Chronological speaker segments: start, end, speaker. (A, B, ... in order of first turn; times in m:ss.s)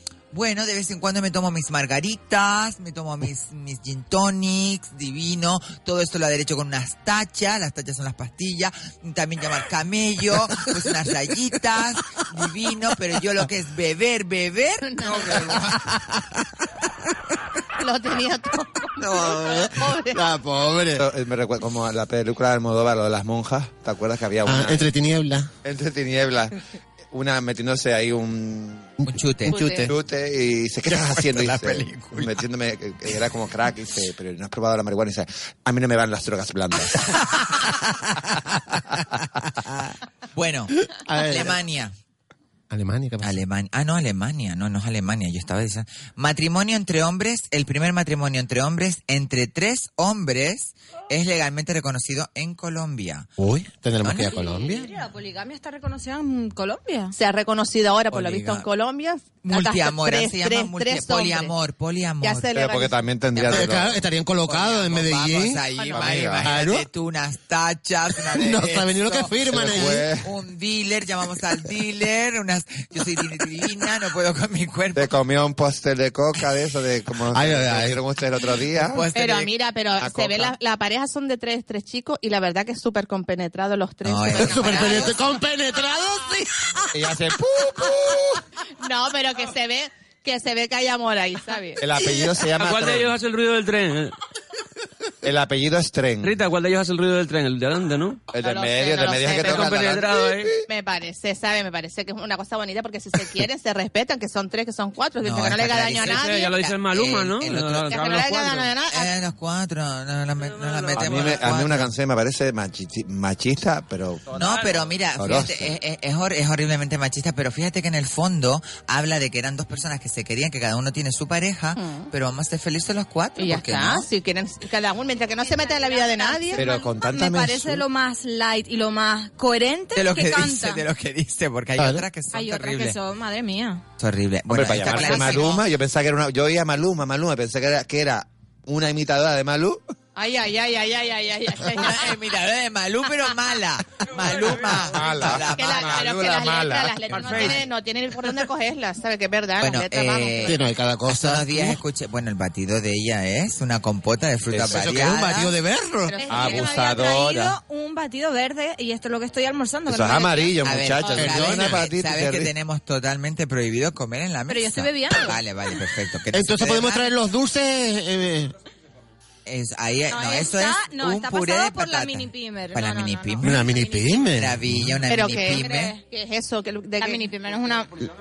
0:00.3-0:15.6 A
0:14.8-0:15.6 B
0:15.3-0:17.1 C
0:17.8-0:20.2 B
0:19.0-0:21.0 C
0:21.0-0:24.9 D
0:24.4-0:25.5 C
0:25.6-0:26.6 D
0:27.1-0:28.9 D
0:29.0-0:29.6 A
0:29.4-0:29.9 C
0:29.5-0:29.9 B
0:29.8-0:37.2 D
0:30.9-0:32.4 A
0:39.6-0:39.9 C
0:40.3-0:41.9 A
0:40.8-0:41.6 C
0:42.7-0:43.4 C
0:43.2-0:53.3 A
0:53.4-0:54.9 C
0:54.0-0:54.3 A
0:54.3-0:57.1 E
0:57.1-1:01.5 B
0:58.1-0:58.7 A
0:59.4-1:02.5 A
1:02.2-1:02.9 B
1:02.5-1:04.0 D
1:03.3-1:03.9 A
1:03.5-1:05.6 C
1:04.4-1:15.1 A
1:05.8-1:06.1 B
1:05.9-1:06.5 D
1:06.4-1:06.8 C
1:08.3-1:10.1 C
1:09.4-1:10.3 D
1:15.0-1:19.0 D
1:17.3-1:18.0 C
1:18.8-1:19.5 A
1:19.1-1:25.1 B
1:20.0-1:20.6 D
1:24.0-1:25.1 A
1:24.3-1:26.9 C
1:26.9-1:28.4 D
1:28.8-1:31.8 B
1:31.8-1:33.1 D
1:32.5-1:34.1 F
1:35.2-1:36.4 D
1:36.2-1:38.2 F
1:38.3-1:40.6 D
1:38.4-1:39.8 B
1:39.3-1:40.6 F
1:40.6-1:46.5 B
1:45.2-1:48.0 A
1:46.0-1:48.7 F
1:47.9-1:49.1 B
1:48.9-1:51.9 A
1:50.8-1:51.2 F
1:50.9-1:54.4 D
1:54.3-2:04.1 A
1:55.2-1:55.7 D
2:01.8-2:02.1 B
2:03.4-2:06.6 B
2:05.4-2:10.8 E
2:06.5-2:07.8 D
2:09.9-2:13.0 A
2:11.8-2:12.0 C
2:12.3-2:13.8 E
2:14.0-2:15.6 A
2:14.5-2:19.8 D
2:14.8-2:15.5 E
2:20.2-2:22.2 B
2:21.7-2:26.1 A
2:24.2-2:27.5 D
2:25.5-2:30.6 B
2:27.1-2:27.6 A
2:27.2-2:27.6 F
2:29.6-2:35.5 A
2:30.4-2:31.8 C
2:34.5-2:34.8 D
2:34.6-2:36.1 C
2:36.1-2:36.9 B
2:36.2-2:40.5 E
2:36.3-2:37.6 D
2:39.9-2:42.5 D
2:40.6-2:47.1 A
2:41.2-2:41.9 C
2:44.5-2:45.4 E
2:46.3-2:48.5 C
2:49.4-2:53.6 A
2:50.1-2:54.3 E
2:53.4-2:54.9 C
2:54.3-2:55.9 A
2:55.1-2:57.2 B
2:55.4-2:56.0 E
2:57.0-2:58.0 E